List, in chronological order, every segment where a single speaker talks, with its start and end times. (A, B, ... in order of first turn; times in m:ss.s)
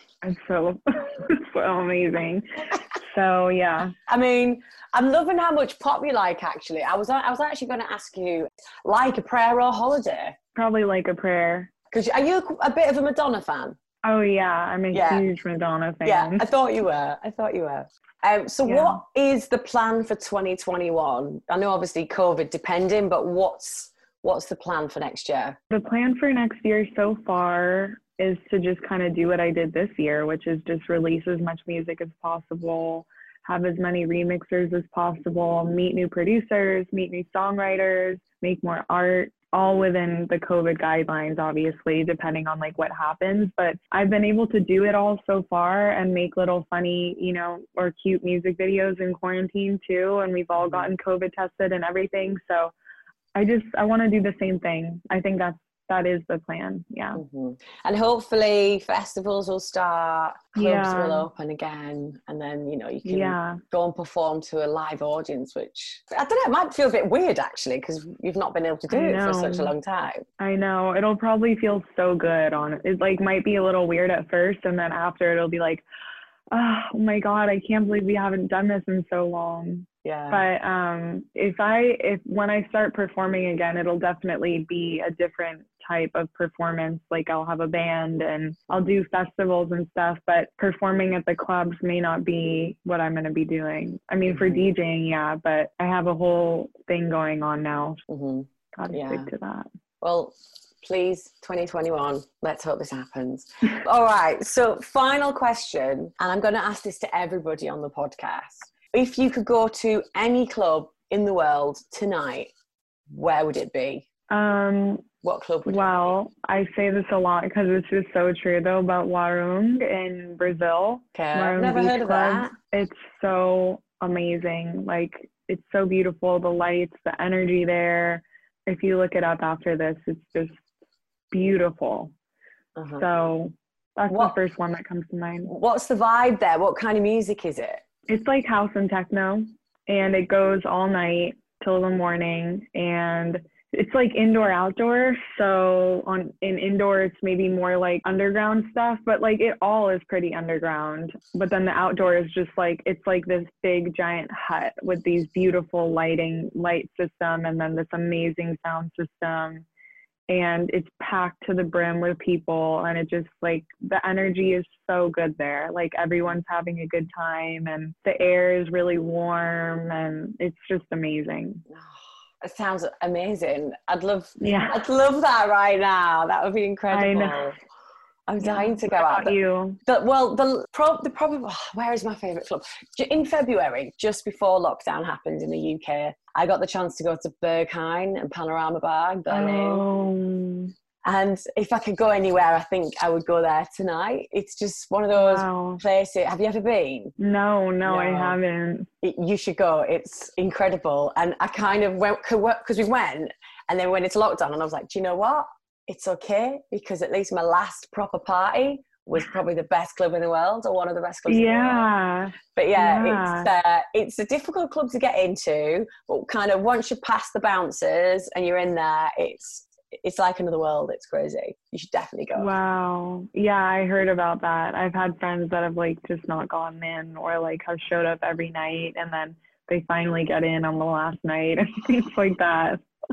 0:00.2-0:04.0 A
0:04.1-0:10.4 B
0:10.6-0:11.7 A
0:11.9-0:13.8 B
0:14.0-0:16.4 A
0:14.9-0:15.2 B
0:16.0-0:25.6 B
0:18.6-0:19.0 A
0:25.7-0:52.7 A
0:50.6-0:50.9 B
0:53.4-0:57.2 A
0:57.2-1:10.3 B
1:00.6-1:01.3 A
1:03.0-1:03.6 A
1:08.9-1:09.7 A
1:10.4-1:15.8 A
1:16.5-1:38.0 A
1:20.0-1:20.4 B
1:34.3-1:34.7 B
1:38.1-1:39.3 B
1:38.7-1:39.7 A
1:40.0-1:52.5 B
1:53.1-1:54.1 B
1:54.3-1:55.0 A
1:55.2-1:56.1 B
1:55.7-2:10.6 A
2:01.1-2:02.5 B
2:11.3-2:12.1 A
2:12.8-2:13.0 B
2:13.0-2:15.5 A
2:14.1-2:14.4 B
2:15.5-2:17.8 B
2:18.1-2:39.7 A
2:40.3-2:51.6 A
2:51.7-2:57.6 B
2:54.4-2:54.9 A
2:56.9-2:57.5 A
2:58.3-3:09.8 B
2:58.4-2:59.8 A
3:09.3-3:10.7 A
3:11.0-3:17.1 B
3:15.1-3:15.8 A
3:17.2-3:18.9 A
3:17.8-3:18.4 B
3:19.0-3:31.9 B
3:31.3-3:33.5 A
3:32.6-3:42.5 B
3:42.4-3:52.8 A